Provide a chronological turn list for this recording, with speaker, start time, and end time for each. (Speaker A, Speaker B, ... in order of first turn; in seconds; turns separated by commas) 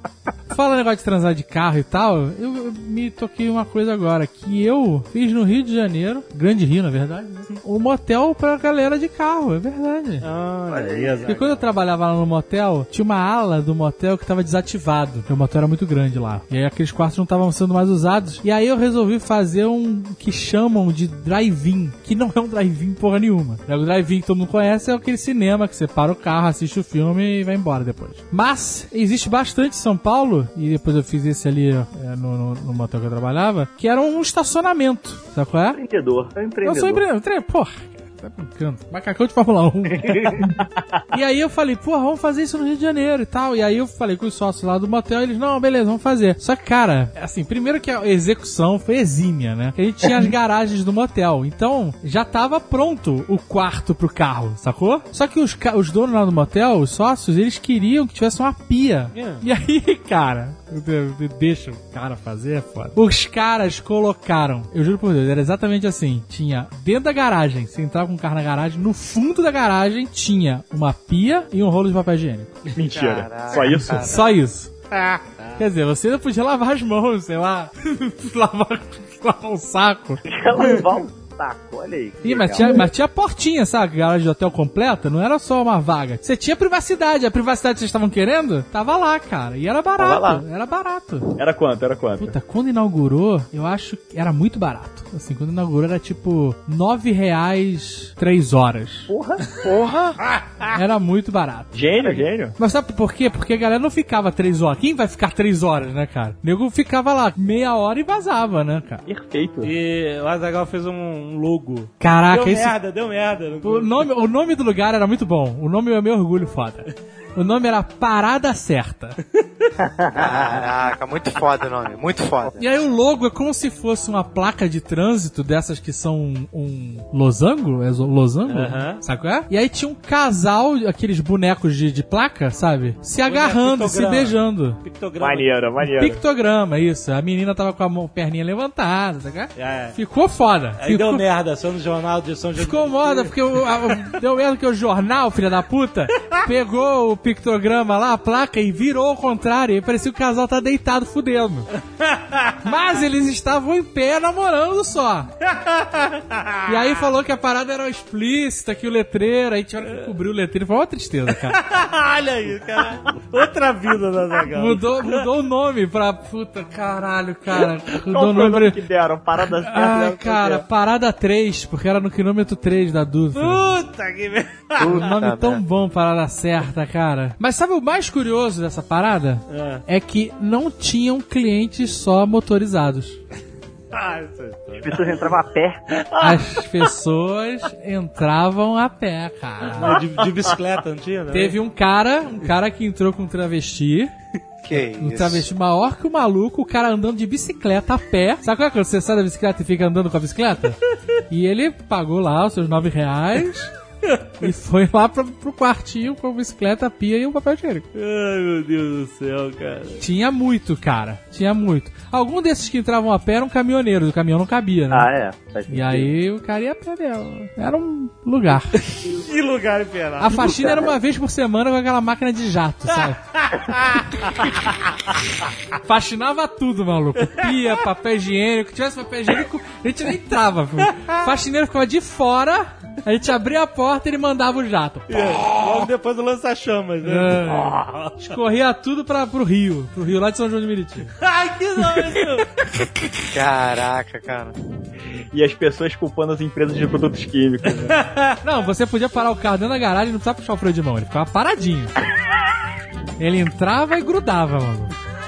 Speaker A: 0.5-10.3, Speaker B: 10.2-11.7, Speaker C: 10.7-11.5, Speaker A: 11.3-35.8, Speaker C: 35.7-37.0, Speaker A: 36.6-40.6, Speaker C: 39.9-40.5, Speaker A: 41.1-72.6, Speaker B: 59.1-59.5, Speaker D: 72.8-74.1, Speaker E: 72.9-74.4, Speaker A: 73.5-74.7, Speaker B: 74.9-75.5, Speaker A: 75.6-80.2, Speaker C: 80.2-82.8, Speaker A: 82.2-91.4, Speaker E: 90.0-90.4, Speaker D: 91.3-92.3, Speaker A: 92.2-99.1, Speaker D: 99.1-99.6, Speaker E: 99.6-100.2, Speaker B: 100.3-100.7, Speaker A: 100.7-109.0, Speaker D: 101.7-102.6, Speaker D: 109.1-109.7, Speaker B: 109.6-114.1, Speaker A: 112.0-112.8, Speaker A: 113.6-119.2, Speaker C: 119.8-120.3, Speaker E: 120.1-122.6, Speaker A: 122.6-134.8, Speaker B: 128.5-129.0, Speaker B: 133.2-135.5, Speaker D: 135.2-136.2, Speaker A: 135.8-141.3, Speaker B: 139.6-140.0, Speaker B: 140.8-144.1, Speaker A: 142.6-151.7, Speaker B: 152.0-152.6, Speaker A: 152.6-155.3, Speaker B: 155.4-156.9, Speaker A: 156.7-161.6, Speaker B: 161.4-165.3, Speaker A: 164.6-168.8, Speaker D: 168.1-170.7, Speaker A: 169.6-173.8, Speaker B: 173.3-175.1, Speaker E: 174.8-175.6, Speaker A: 174.8-183.2, Speaker B: 179.5-179.8, Speaker B: 183.9-185.3, Speaker C: 184.8-185.8, Speaker A: 186.2-190.0, Speaker B: 189.8-191.6, Speaker D: 190.2-190.6, Speaker A: 191.3-194.1, Speaker E: 194.6-195.5, Speaker A: 195.0-200.8, Speaker A: 201.3-203.7, Speaker B: 204.0-204.5, Speaker A: 204.4-207.9, Speaker B: 207.9-210.0, Speaker A: 210.0-215.1, Speaker C: 214.9-216.1, Speaker A: 215.7-218.9, Speaker B: 219.0-220.8, Speaker A: 220.2-223.2, Speaker B: 222.9-224.4, Speaker A: 225.8-235.3, Speaker B: 230.8-231.3, Speaker B: 235.1-238.4, Speaker A: 237.0-241.1, Speaker B: 241.2-242.5, Speaker E: 243.3-244.6, Speaker D: 245.3-248.0, Speaker B: 247.8-248.4, Speaker A: 248.4-251.9, Speaker A: 253.2-254.9